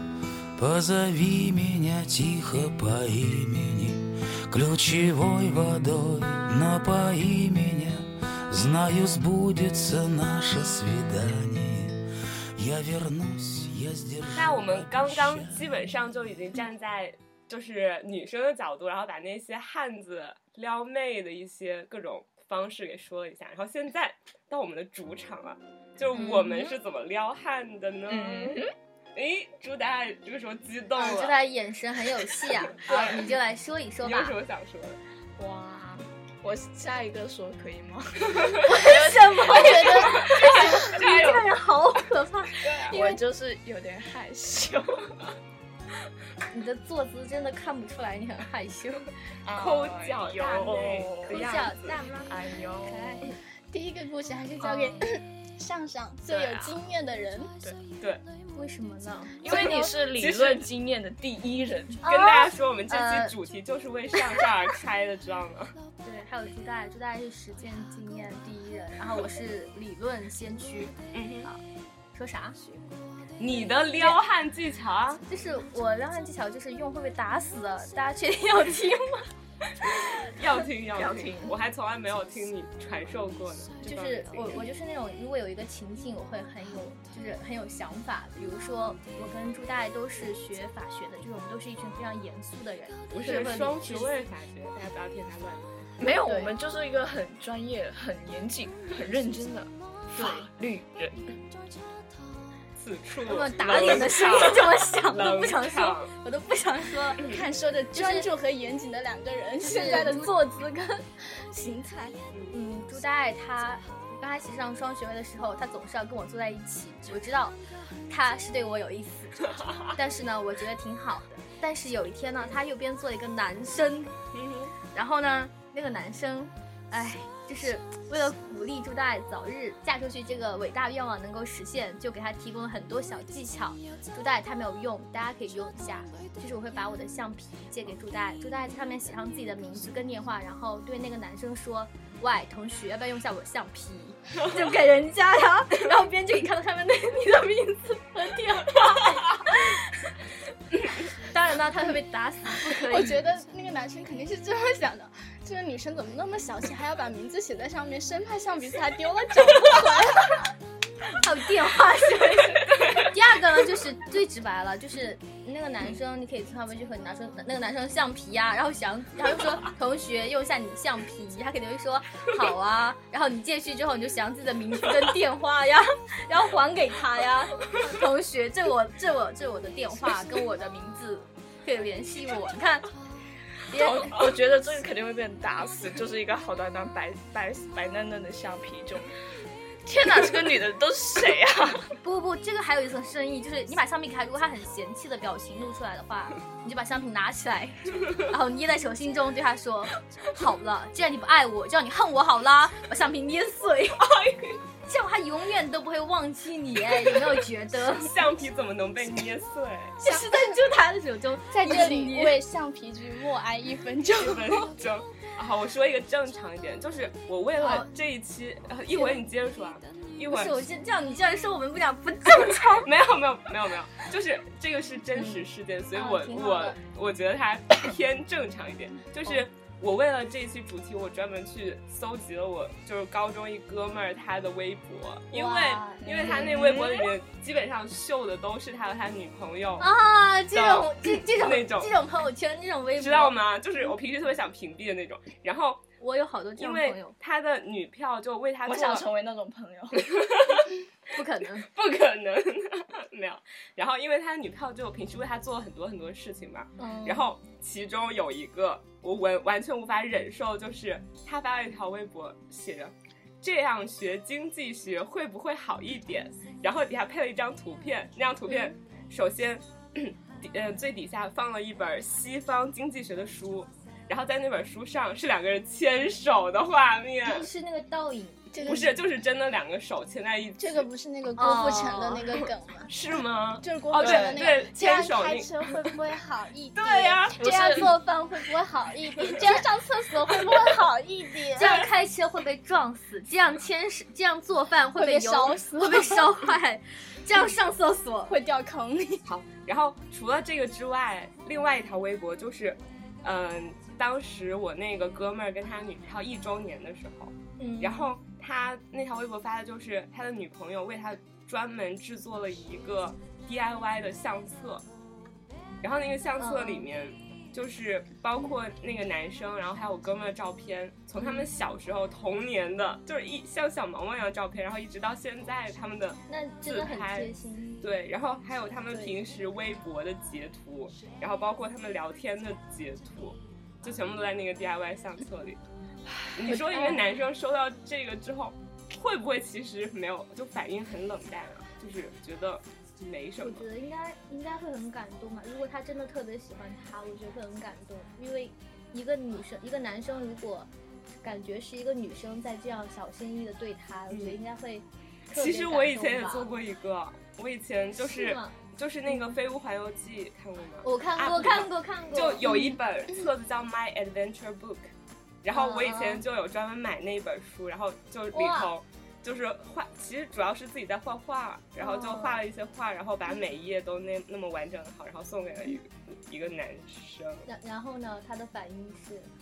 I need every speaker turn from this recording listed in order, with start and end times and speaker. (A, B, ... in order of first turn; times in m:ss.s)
0:00.6-0:12.0 A
0:12.6-0:15.7 A
0:14.4-0:28.6 B
0:26.1-0:26.8 C
0:28.1-0:28.7 D
0:29.2-0:31.4 B
0:31.0-0:34.4 C
0:32.8-0:33.4 B
0:34.0-0:35.0 B
0:35.4-0:40.7 D
0:38.7-0:43.2 C
0:40.2-0:41.5 B
0:42.6-0:43.0 B
0:42.9-0:45.3 D
0:46.5-0:49.1 C
0:49.4-0:51.6 D
0:49.5-0:52.0 B
0:51.3-0:53.3 C
0:52.3-0:53.3 D
0:53.7-0:57.5 E
0:54.6-0:55.0 D
0:56.3-0:56.8 D
0:58.5-0:59.9 C
0:59.4-1:02.0 D
0:59.5-1:00.6 B
1:02.0-1:03.3 C
1:02.0-1:05.8 B
1:06.0-1:11.6 C
1:11.1-1:11.5 B
1:12.1-1:12.6 C
1:13.4-1:15.2 B
1:13.6-1:14.2 C
1:15.3-1:19.3 C
1:20.2-1:24.6 B
1:21.0-1:21.5 D
1:23.8-1:34.1 C
1:33.1-1:35.6 B
1:36.0-1:41.3 D
1:36.2-1:36.5 C
1:40.2-1:40.5 C
1:42.8-1:46.1 B
1:43.3-1:47.3 C
1:47.2-1:52.2 E
1:47.9-1:48.3 C
1:49.6-1:50.4 C
1:52.5-1:57.6 C
1:58.1-2:04.1 C
2:04.3-2:04.7 B
2:04.9-2:29.8 C
2:31.0-2:33.2 C
2:32.8-2:40.5 E
2:41.2-3:02.9 C
3:03.7-3:04.2 C
3:03.7-3:09.1 D
3:09.8-3:11.9 D
3:12.0-3:28.2 C
3:27.8-3:30.0 B
3:30.0-3:32.4 C
3:30.0-3:30.6 E
3:31.5-3:34.7 E
3:34.2-3:40.6 B
3:37.6-3:37.9 C
3:38.9-3:39.2 C
3:40.3-3:42.9 C
3:42.4-3:59.9 B
3:45.2-3:45.4 C
3:46.0-3:46.8 C
3:55.3-3:56.8 C
3:56.0-3:57.1 D
3:59.8-4:03.4 C
4:00.5-4:01.9 B
4:03.0-4:05.8 B
4:06.0-4:07.2 C
4:06.6-4:09.1 B
4:08.6-4:10.2 D
4:10.1-4:10.7 B
4:11.1-4:11.7 C
4:11.7-4:37.5 B
4:16.8-4:17.3 C
4:37.2-4:38.5 C
4:38.5-4:39.0 E
4:38.6-4:40.9 B
4:40.6-4:42.9 E
4:41.4-4:42.4 C
4:42.9-4:45.9 B
4:43.6-4:51.9 E
4:44.0-4:44.5 D
4:46.8-4:47.8 B
4:47.4-4:48.0 D
4:51.6-4:58.4 C
4:55.0-4:56.3 E
4:58.3-4:59.2 E
4:59.3-5:14.8 B
5:07.6-5:08.1 C
5:15.8-5:35.6 B
5:16.4-5:16.9 C
5:21.2-5:21.4 C
5:26.3-5:27.9 C
5:36.3-5:43.7 B
5:36.5-5:37.0 C
5:43.4-5:50.7 C
5:51.2-5:56.5 C
5:54.1-5:54.4 B
5:55.3-6:04.9 B
5:58.0-5:58.6 C
5:59.1-5:59.3 C
6:00.8-6:02.7 C
6:05.4-6:17.5 B
6:05.5-6:06.2 C
6:08.3-6:08.7 C
6:11.8-6:12.4 C
6:17.5-6:19.3 C